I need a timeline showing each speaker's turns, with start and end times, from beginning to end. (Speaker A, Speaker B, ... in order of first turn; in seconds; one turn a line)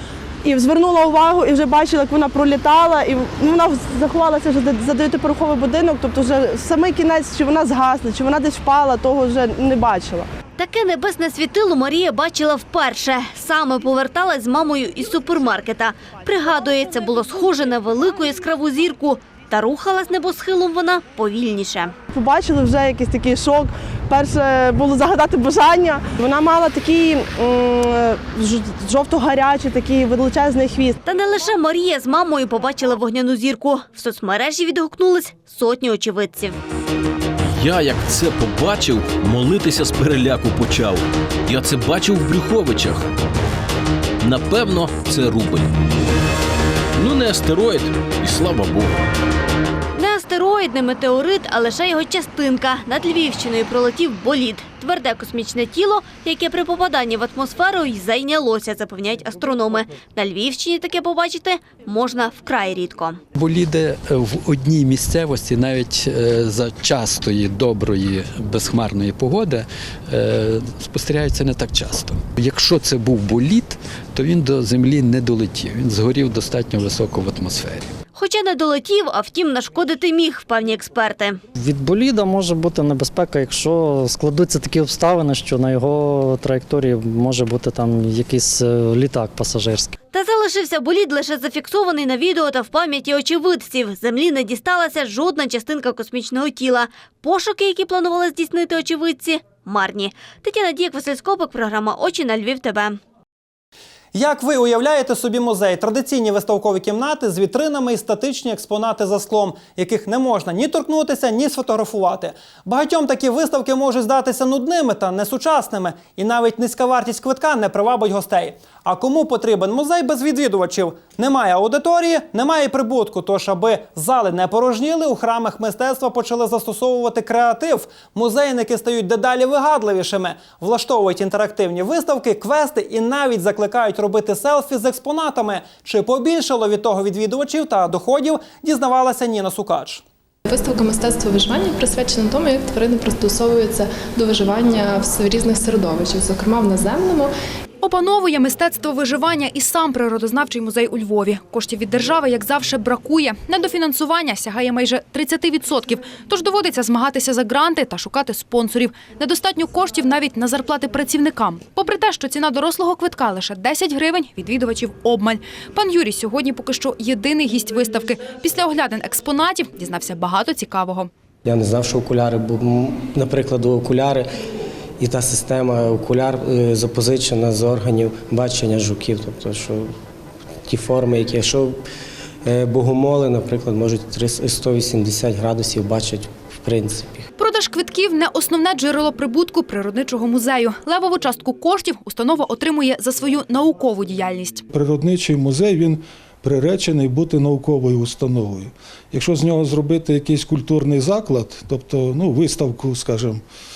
Speaker A: 0.4-10.3
Speaker B: 10.6-21.9
Speaker A: 22.1-31.0
Speaker B: 31.1-36.6
Speaker C: 37.5-43.1
Speaker C: 44.2-45.8
Speaker C: 47.0-49.0
Speaker B: 50.0-63.2
Speaker D: 63.4-77.9
Speaker B: 78.1-81.4
Speaker E: 81.6-89.9
Speaker B: 90.1-103.0
Speaker F: 104.1-140.0
Speaker G: 140.5-147.3
Speaker H: 147.8-171.1
Speaker I: 171.4-174.3
Speaker I: 175.0-179.9
Speaker I: 180.7-181.8
Speaker I: 182.4-187.3
Speaker H: 187.4-194.6
Speaker J: 194.7-203.4